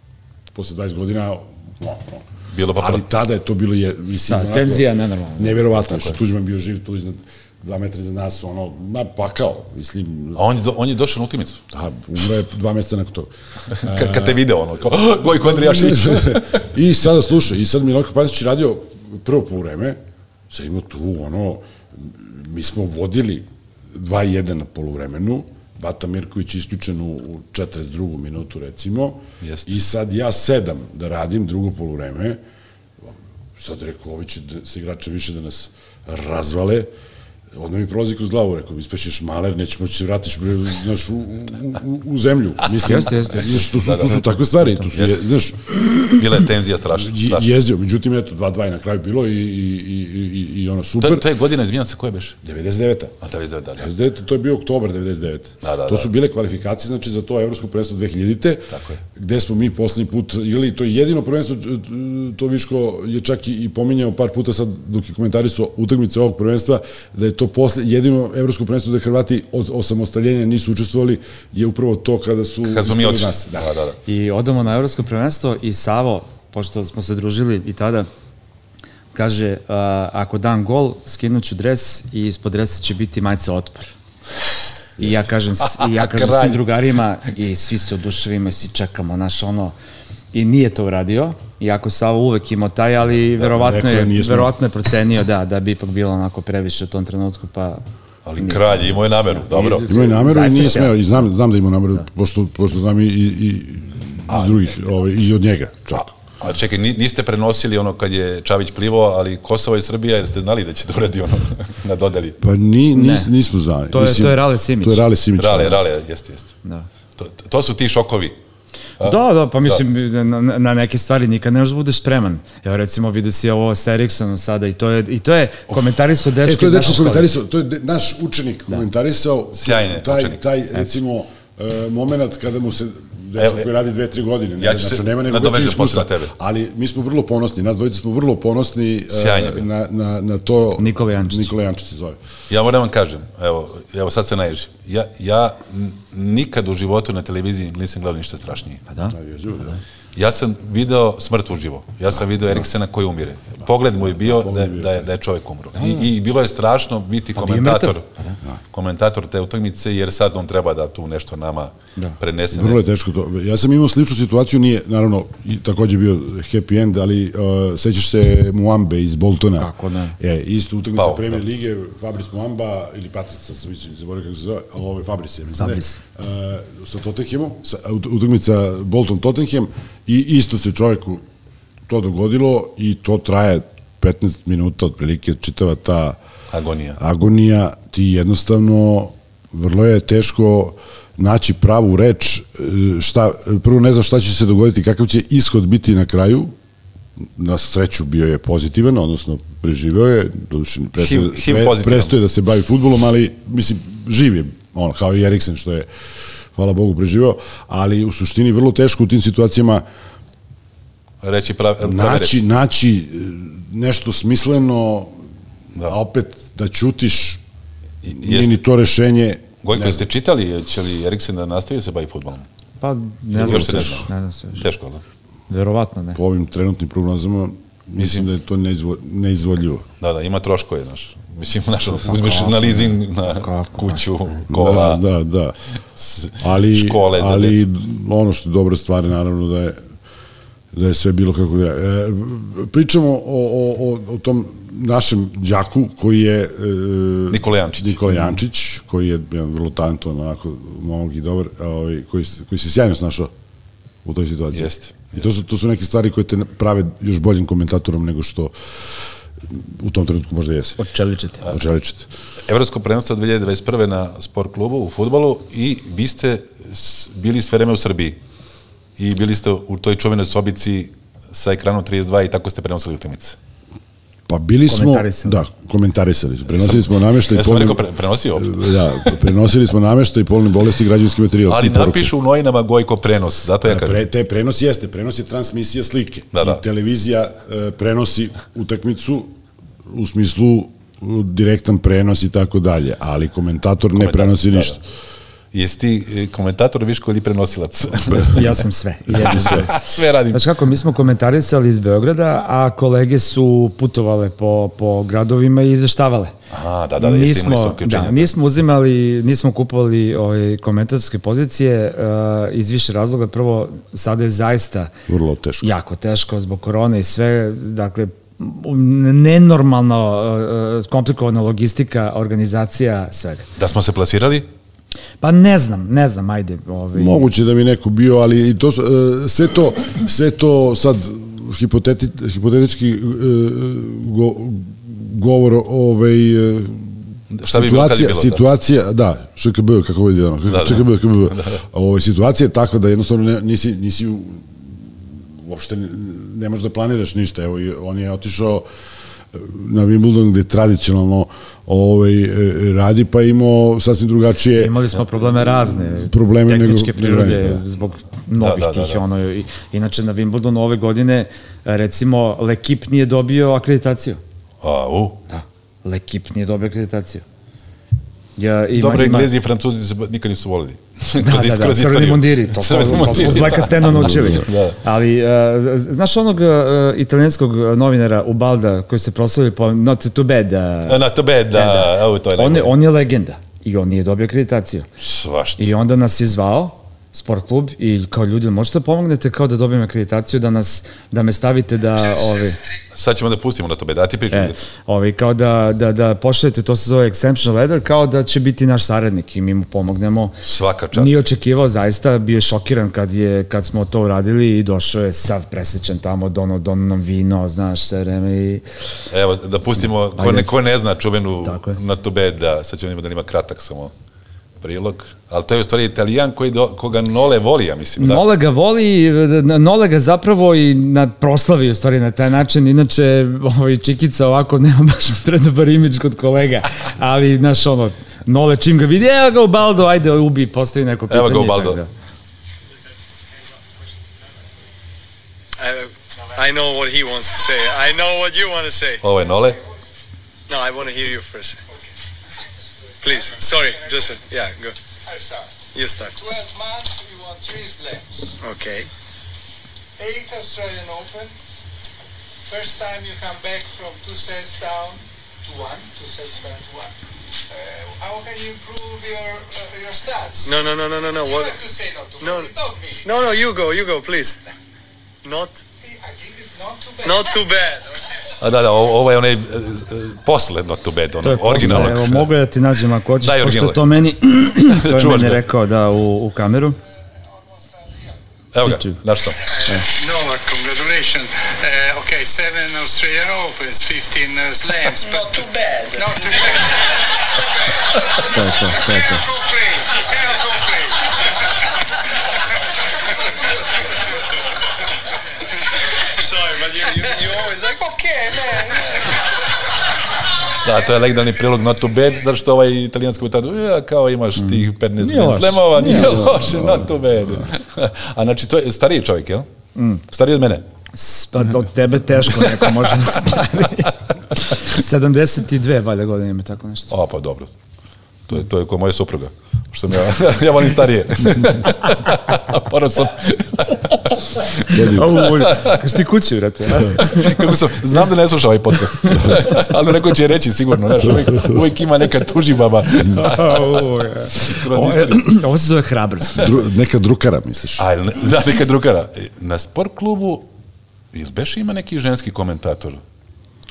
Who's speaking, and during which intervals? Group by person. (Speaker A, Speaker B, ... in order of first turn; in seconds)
Speaker A: 0.5-10.4, 11.7-20.0, 20.5-32.4, 33.0-36.9, 37.5-46.2, 46.9-51.3, 52.4-53.2, 53.8-73.7, 93.4-94.5, 99.8-106.1, 112.4-115.8, 126.4-142.2, 149.1-149.8, 154.0-155.1, 162.5-181.2, 181.9-186.2, 187.0-196.6, 197.2-205.9, 206.5-209.8, 211.8-215.2, 215.8-217.4, 218.1-220.1, 223.4-224.0, 226.2-229.9, 234.5-235.6, 236.4-239.8, 240.7-253.3, 254.1-258.5, 259.5-260.8, 261.4-262.1, 274.3-282.1, 283.6-289.4, 289.9-294.8, 299.3-299.6, 315.1-315.7, 326.9-348.7, 349.3-357.6, 374.1-374.4, 505.9-506.9, 524.7-525.1, 536.4-537.9
Speaker B: 2.5-3.0, 5.9-6.2, 10.4-11.6, 13.8-16.6, 29.4-29.8, 43.7-44.2, 44.9-45.2, 46.0-47.5, 51.0-52.4, 53.2-53.9, 55.6-56.1, 58.7-59.0, 72.7-74.0, 85.7-86.6, 98.3-99.9, 104.3-104.7, 106.4-112.4, 115.4-116.5, 117.2-118.4, 129.6-130.4, 133.4-133.7, 134.6-136.3, 139.1-139.7, 142.5-148.8, 150.2-158.1, 158.7-162.8, 171.0-171.4, 186.5-187.0, 201.0-202.1, 211.2-212.4, 218.0-218.6, 219.6-222.5, 223.4-225.0, 230.0-235.0, 236.0-237.7, 247.3-248.2, 254.5-255.2, 262.5-268.2, 269.0-273.4, 276.6-279.1, 281.5-284.0, 286.3-286.6, 293.9-294.8, 295.5-298.6, 299.2-300.4, 306.5-308.3, 323.6-324.5, 337.3-338.4, 340.5-341.6, 358.4-359.0, 364.6-365.2, 368.8-374.8, 380.9-382.8, 385.0-385.7, 392.9-394.6, 400.4-401.2, 409.1-413.9, 414.6-418.2, 431.1-431.8, 439.0-439.6, 468.4-472.3, 473.2-473.9, 474.7-475.4, 478.5-479.4, 500.6-509.5, 510.1-510.6, 512.6-512.9, 516.9-517.5, 518.3-525.8, 526.9-535.3, 537.8-540.5, 541.1-543.0
Speaker C: 4.3-5.7, 42.8-44.0, 74.1-78.1, 79.1-83.9, 85.0-89.8, 90.3-97.8, 98.4-101.0, 113.0-113.3, 113.9-115.0, 119.0-127.3, 140.8-141.5, 157.3-158.4, 169.6-170.2, 175.6-176.0, 222.8-224.7, 225.5-226.2, 232.1-234.0, 260.8-261.4, 274.7-275.4, 298.3-306.4, 307.0-314.9, 315.6-323.5, 325.2-327.3, 354.6-364.2, 365.3-367.2, 368.4-369.3, 371.2-384.9, 385.6-392.6, 394.3-400.4, 400.9-408.6, 410.2-410.5, 411.4-411.8, 418.0-431.9, 471.2-476.8, 478.6-479.0, 488.3-489.3, 504.4-506.4, 509.8-510.0, 510.9-516.9, 524.7-527.6, 529.0-529.6, 533.0-536.5
Speaker D: 435.6-439.0, 440.5-441.6, 443.0-444.8, 445.7-446.2, 448.4-448.9, 460.4-461.6, 462.2-462.5, 463.0-464.4, 465.2-465.6, 467.0-467.9, 485.0-486.6, 496.1-498.9
Speaker E: 443.0-444.1, 445.1-448.4, 450.0-451.3, 452.5-456.9, 457.5-460.6, 461.2-463.1, 465.8-467.5, 477.6-478.1, 479.5-485.3, 486.0-487.0, 488.2-490.9